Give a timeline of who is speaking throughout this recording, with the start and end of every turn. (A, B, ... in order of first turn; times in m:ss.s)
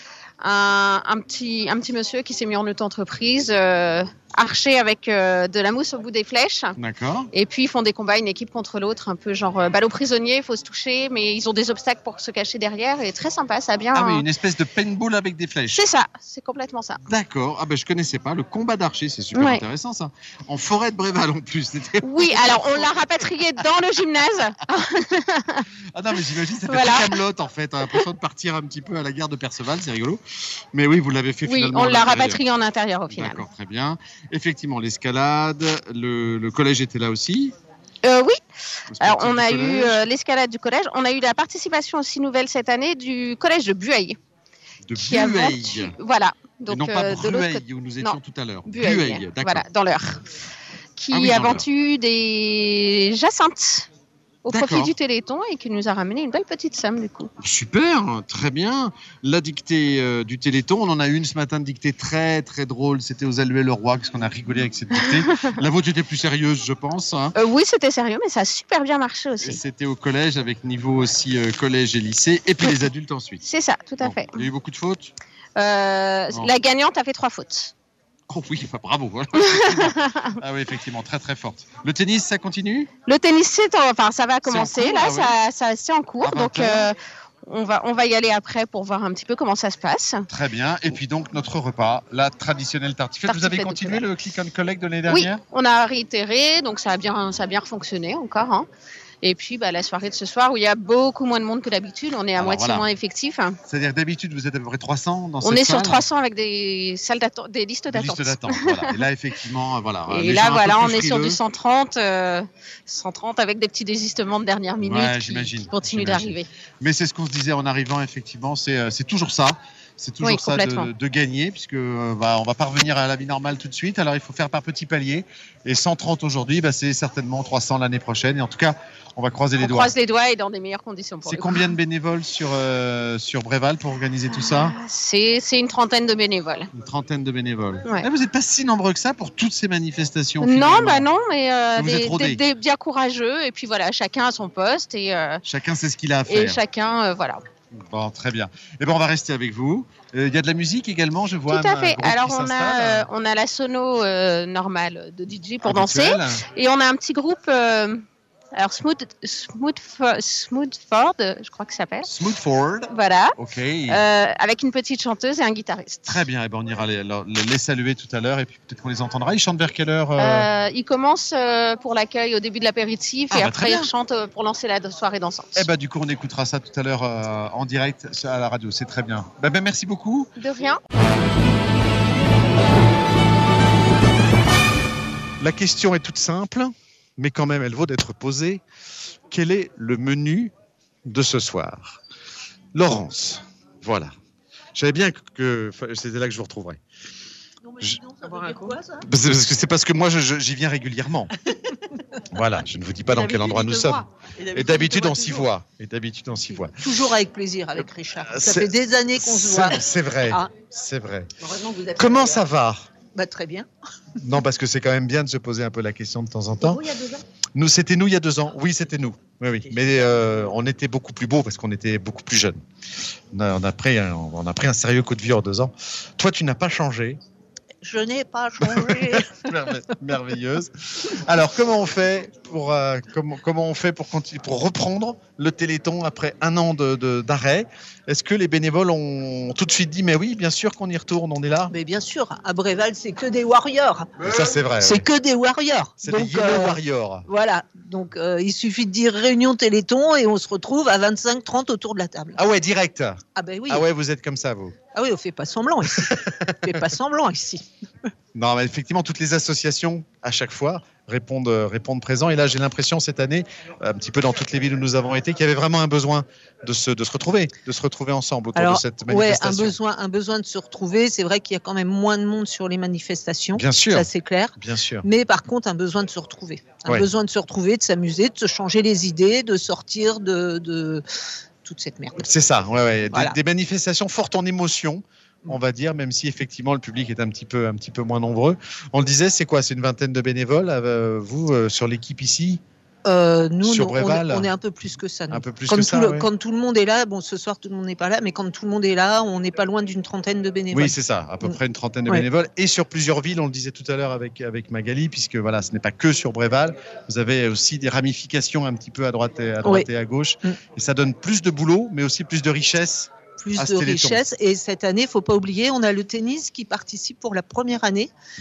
0:00.4-0:06.8 A
0:06.8-0:07.3 B
0:07.3-0:14.2 A
0:13.9-0:15.8 B
0:15.7-0:17.0 A
0:17.0-0:23.4 B
0:19.3-0:19.6 A
0:22.0-0:25.7 A
0:25.9-0:30.2 B
0:26.7-0:27.2 A
0:30.7-0:32.4 B
0:31.4-0:33.4 A
0:33.1-0:37.5 B
0:38.0-0:38.4 A
0:38.9-0:40.0 B
0:39.0-0:44.2 A
0:44.8-0:45.9 B
0:45.0-0:50.2 A
0:46.7-0:49.6 B
0:51.0-0:53.9 A
0:51.1-0:51.6 B
0:54.4-0:57.3 A
0:54.5-0:54.9 B
0:57.4-1:07.4 B
1:07.3-1:09.6 A
1:09.4-1:13.4 B
1:13.4-1:14.4 A
1:14.0-1:15.1 B
1:15.6-1:17.7 A
1:18.3-1:22.9 B
1:19.4-1:20.2 A
1:23.0-1:27.0 A
1:24.4-1:25.3 B
1:26.2-1:26.9 B
1:27.5-1:30.2 A
1:30.3-1:35.4 B
1:33.3-1:34.0 A
1:35.1-1:38.7 A
1:39.2-1:43.6 A
1:42.3-1:42.9 B
1:43.7-1:46.0 B
1:45.4-1:49.0 A
1:47.9-1:51.4 B
1:50.1-1:56.5 A
1:54.8-2:09.9 B
2:00.2-2:00.9 A
2:09.6-2:11.7 A
2:11.2-2:14.8 B
2:14.3-2:16.7 A
2:16.7-2:21.0 B
2:20.4-2:25.4 A
2:21.8-2:22.4 B
2:25.4-2:26.6 B
2:26.3-2:27.4 A
2:27.8-2:33.1 B
2:31.5-2:38.0 A
2:35.6-2:36.4 B
2:38.6-2:42.1 A
2:42.0-2:44.0 B
2:42.9-2:43.3 A
2:43.9-2:46.2 A
2:46.0-2:50.5 B
2:50.2-2:55.7 A
2:53.3-2:53.9 B
2:55.5-3:00.3 B
3:00.4-3:00.8 A
3:05.4-3:08.6 B
3:09.3-3:10.5 B
3:11.0-3:12.0 B
3:12.7-3:14.1 B
3:14.7-3:16.8 B
3:18.2-3:18.7 C
3:19.0-3:21.3 B
3:22.3-3:26.9 B
3:26.5-3:30.5 C
3:28.2-3:32.9 B
3:33.1-3:33.7 C
3:34.2-3:36.9 B
3:37.5-3:42.6 B
3:43.3-3:47.2 B
3:47.8-3:49.4 C
3:48.6-4:01.7 B
4:01.7-4:12.4 C
4:04.2-4:05.0 B
4:06.0-4:07.2 B
4:12.4-4:14.7 B
4:13.4-4:13.8 C
4:14.9-4:17.6 C
4:15.9-4:16.8 B
4:18.3-4:29.8 B
4:28.5-4:41.0 C
4:33.5-4:35.0 B
4:41.6-4:42.3 C
4:42.2-4:52.6 B
4:43.1-4:43.4 C
4:53.0-5:02.2 C
4:53.6-4:54.5 B
4:55.3-4:56.3 B
5:00.7-5:14.2 B
5:13.4-5:18.1 C